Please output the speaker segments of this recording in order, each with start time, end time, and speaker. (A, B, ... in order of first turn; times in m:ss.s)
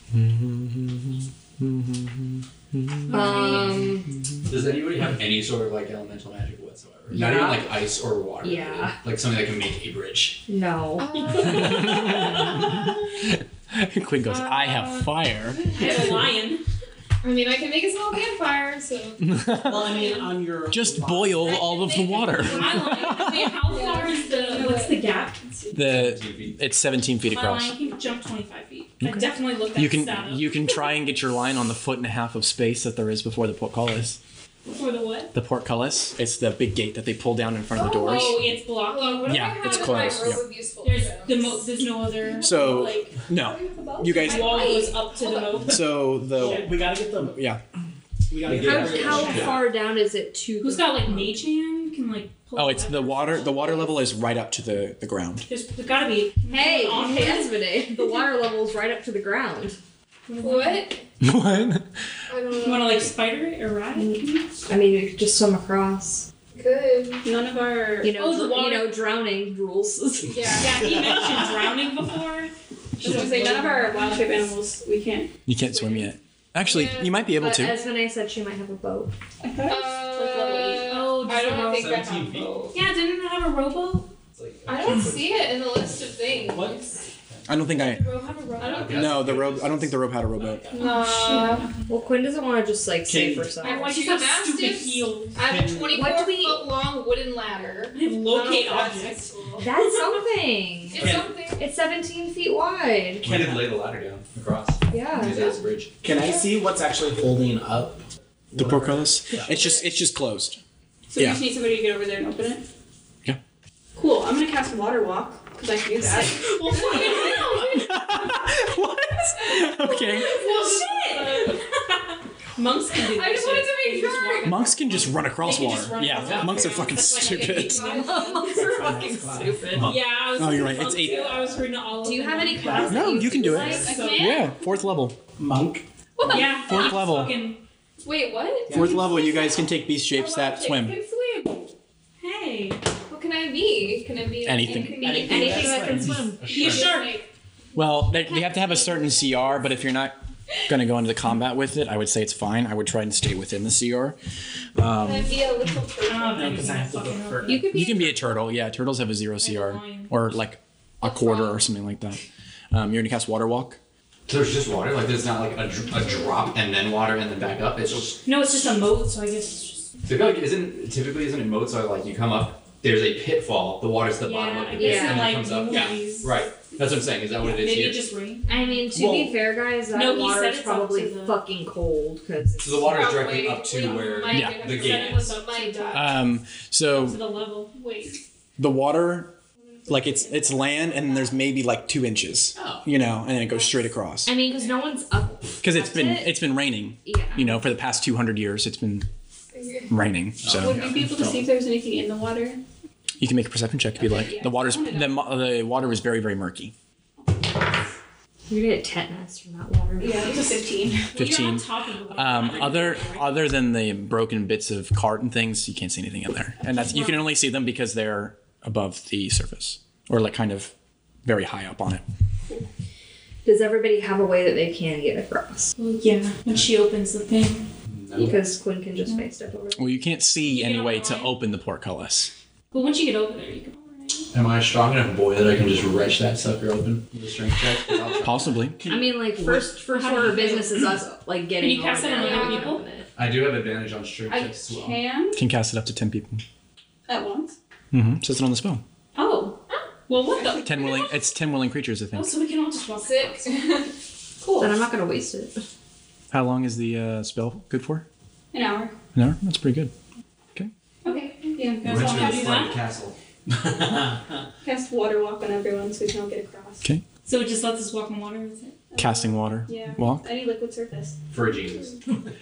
0:00.1-0:04.2 A
0:03.1-0:03.8 B
0:03.1-0:04.1 C
0:04.5-0:10.4 D
0:07.1-0:07.8 C
0:08.4-0:09.0 C
0:10.5-0:11.8 C
0:11.0-0:12.5 E
0:11.4-0:12.8 A
0:13.7-0:16.2 A
0:14.3-0:16.6 B
0:15.7-0:16.1 E
0:17.2-0:19.4 E
0:19.2-0:20.0 A
0:19.5-0:21.7 F
0:20.7-0:23.5 A
0:21.4-0:24.9 E
0:22.3-0:25.4 B
0:24.6-0:24.9 G
0:25.7-0:27.8 A
0:25.8-0:26.6 D
0:27.3-0:30.5 B
0:29.0-0:34.2 A
0:34.7-0:35.3 B
0:35.3-0:38.4 A
0:37.7-0:41.6 E
0:37.9-0:43.1 B
0:39.3-0:40.4 A
0:42.4-0:44.7 A
0:42.5-0:45.4 E
0:44.2-0:46.6 B
0:45.6-0:46.7 A
0:46.2-0:47.4 F
0:47.3-0:47.6 A
0:48.3-0:49.6 F
0:48.4-0:49.6 D
0:48.5-0:51.4 C
0:49.0-0:49.5 B
0:50.6-0:53.6 B
0:52.6-0:55.5 A
0:55.5-0:57.6 B
0:56.5-0:59.8 C
1:00.3-1:00.9 B
1:00.4-1:01.0 E
1:01.2-1:01.9 A
1:02.3-1:03.1 E
1:02.6-1:04.3 B
1:04.0-1:06.3 C
1:06.6-1:07.3 E
1:07.2-1:08.3 G
1:08.0-1:10.6 C
1:08.1-1:09.0 B
1:10.2-1:10.9 E
1:10.6-1:14.2 B
1:10.9-1:11.5 F
1:13.0-1:15.3 G
1:15.5-1:17.8 A
1:16.6-1:17.2 E
1:17.3-1:19.1 C
1:19.4-1:21.0 G
1:19.6-1:22.8 E
1:20.7-1:22.0 B
1:21.7-1:22.6 D
1:22.7-1:24.1 B
1:24.4-1:26.5 D
1:24.7-1:27.0 E
1:26.4-1:26.8 F
1:27.5-1:28.0 A
1:27.7-1:29.2 B
1:28.7-1:30.8 D
1:28.9-1:30.6 A
1:30.7-1:31.7 E
1:30.8-1:31.8 B
1:30.8-1:31.6 G
1:31.9-1:34.0 C
1:33.0-1:33.7 F
1:33.6-1:35.4 B
1:33.7-1:39.7 E
1:35.4-1:36.1 F
1:35.9-1:36.7 C
1:38.0-1:39.3 B
1:39.6-1:43.3 C
1:40.9-1:41.6 E
1:41.0-1:41.4 F
1:43.2-1:45.9 D
1:43.2-1:43.7 F
1:44.9-1:45.6 C
1:46.0-1:49.6 F
1:48.6-1:50.6 A
1:51.1-1:52.7 G
1:51.2-1:51.4 A
1:54.0-1:57.4 G
1:56.3-1:57.9 B
1:56.6-1:57.9 E
1:57.7-2:00.4 A
2:00.1-2:01.8 B
2:02.6-2:04.6 B
2:03.0-2:05.1 E
2:04.4-2:07.9 A
2:05.4-2:08.4 B
2:06.6-2:09.1 E
2:07.8-2:09.9 C
2:08.5-2:10.0 F
2:09.8-2:11.3 A
2:09.8-2:14.4 B
2:10.6-2:11.5 E
2:12.0-2:14.0 C
2:12.6-2:13.9 F
2:12.9-2:15.2 A
2:13.8-2:14.6 E
2:15.4-2:15.8 F
2:16.2-2:17.0 E
2:16.2-2:17.6 B
2:16.3-2:17.4 A
2:18.0-2:19.6 E
2:18.7-2:19.1 F
2:18.7-2:21.0 A
2:20.1-2:21.7 E
2:22.2-2:22.8 B
2:23.1-2:25.8 E
2:24.4-2:25.1 A
2:24.7-2:25.6 G
2:25.0-2:26.2 F
2:25.0-2:26.6 C
2:25.8-2:26.1 A
2:26.4-2:26.8 D
2:26.4-2:27.2 B
2:26.6-2:27.2 E
2:26.6-2:27.2 G
2:27.7-2:34.2 A
2:28.2-2:29.2 C
2:34.8-2:35.4 A
2:35.0-2:36.6 E
2:36.1-2:37.7 B
2:36.3-2:37.7 F
2:37.5-2:38.2 C
2:37.7-2:43.8 A
2:39.4-2:40.1 B
2:41.0-2:41.6 E
2:44.3-2:48.2 D
2:48.2-2:49.9 B
2:50.0-2:58.0 D
2:54.2-2:56.3 B
2:54.8-2:55.4 C
2:57.4-2:58.8 B
2:58.5-3:03.1 C
2:58.9-2:59.4 F
2:59.9-3:01.4 B
3:02.6-3:05.3 D
3:02.9-3:06.2 E
3:04.3-3:04.7 A
3:04.6-3:06.1 B
3:05.9-3:07.2 A
3:06.9-3:07.7 B
3:07.7-3:08.2 G
3:08.6-3:09.4 A
3:09.9-3:14.3 A
3:12.6-3:12.8 D
3:14.2-3:16.4 C
3:15.6-3:19.1 A
3:17.0-3:17.6 C
3:19.5-3:19.9 E
3:19.9-3:20.8 A
3:20.4-3:21.1 D
3:20.5-3:22.6 G
3:23.2-3:26.7 A
3:24.0-3:25.3 G
3:28.5-3:30.5 C
3:30.0-3:31.1 G
3:31.1-3:33.4 B
3:31.2-3:40.7 A
3:36.6-3:37.3 B
3:41.2-3:42.0 A
3:43.4-3:45.7 C
3:45.8-3:47.7 B
3:47.9-3:48.4 D
3:48.1-3:49.9 C
3:49.8-3:52.3 A
3:50.5-3:51.3 B
3:52.7-3:54.3 B
3:54.3-3:58.6 D
3:58.2-3:58.8 A
3:58.7-3:59.8 F
3:58.9-4:03.1 C
3:59.9-4:00.9 B
4:01.6-4:02.8 B
4:02.1-4:02.8 E
4:03.2-4:05.0 D
4:04.3-4:05.4 G
4:05.3-4:06.4 A
4:07.1-4:07.6 G
4:07.9-4:08.8 A
4:09.2-4:11.1 B
4:10.3-4:10.6 G
4:10.6-4:12.4 A
4:12.1-4:13.5 B
4:12.9-4:13.9 E
4:14.4-4:14.8 G
4:14.6-4:15.6 C
4:16.3-4:18.1 A
4:18.5-4:19.0 G
4:19.2-4:19.9 A
4:21.0-4:22.4 G
4:21.6-4:22.8 B
4:21.8-4:24.1 D
4:24.6-4:26.9 G
4:27.2-4:28.8 B
4:28.9-4:31.2 G
4:29.0-4:30.2 A
4:31.3-4:32.0 D